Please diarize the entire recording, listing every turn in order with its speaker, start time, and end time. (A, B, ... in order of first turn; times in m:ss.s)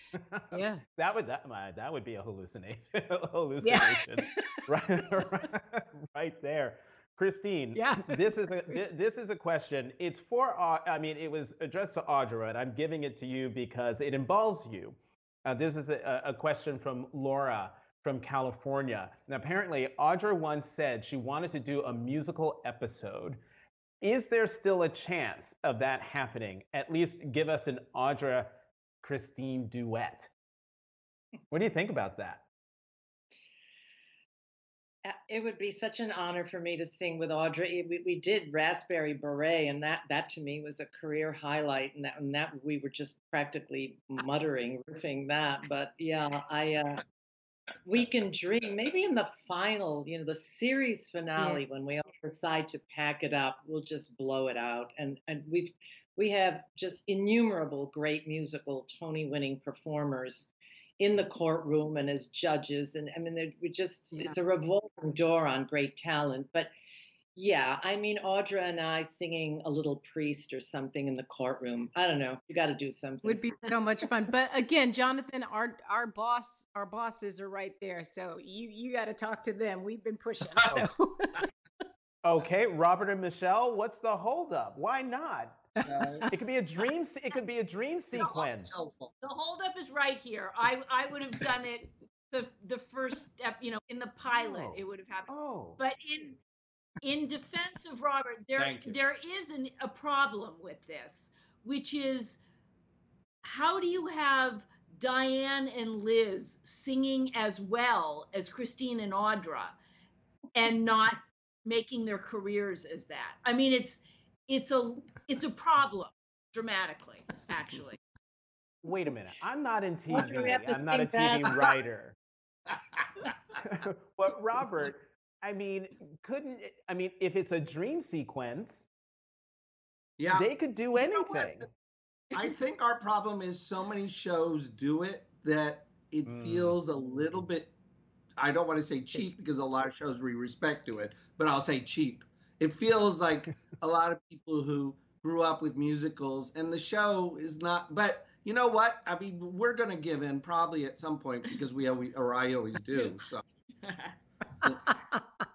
0:00.1-0:23.4 A
0:00.5-0:00.8 B
0:03.6-0:04.6 B
0:07.7-0:08.8 B
0:24.0-0:30.3 A
0:31.5-0:32.4 A
0:35.0-0:47.0 C
0:47.8-1:06.7 C
1:07.3-1:13.4 C
1:13.2-1:21.4 B
1:22.2-1:28.7 A
1:25.8-1:26.3 D
1:28.1-1:29.1 D
1:29.2-1:36.4 E
1:34.3-1:35.8 A
1:37.0-1:42.4 E
1:38.6-1:39.0 D
1:43.4-1:49.7 E
1:50.5-1:58.0 E
1:58.8-2:02.1 A
2:00.1-2:01.7 C
2:03.6-2:08.9 A
2:10.2-2:11.5 D
2:10.3-2:11.7 A
2:12.3-2:17.7 D
2:16.3-2:16.8 A
2:18.4-2:33.4 D
2:33.8-2:34.1 E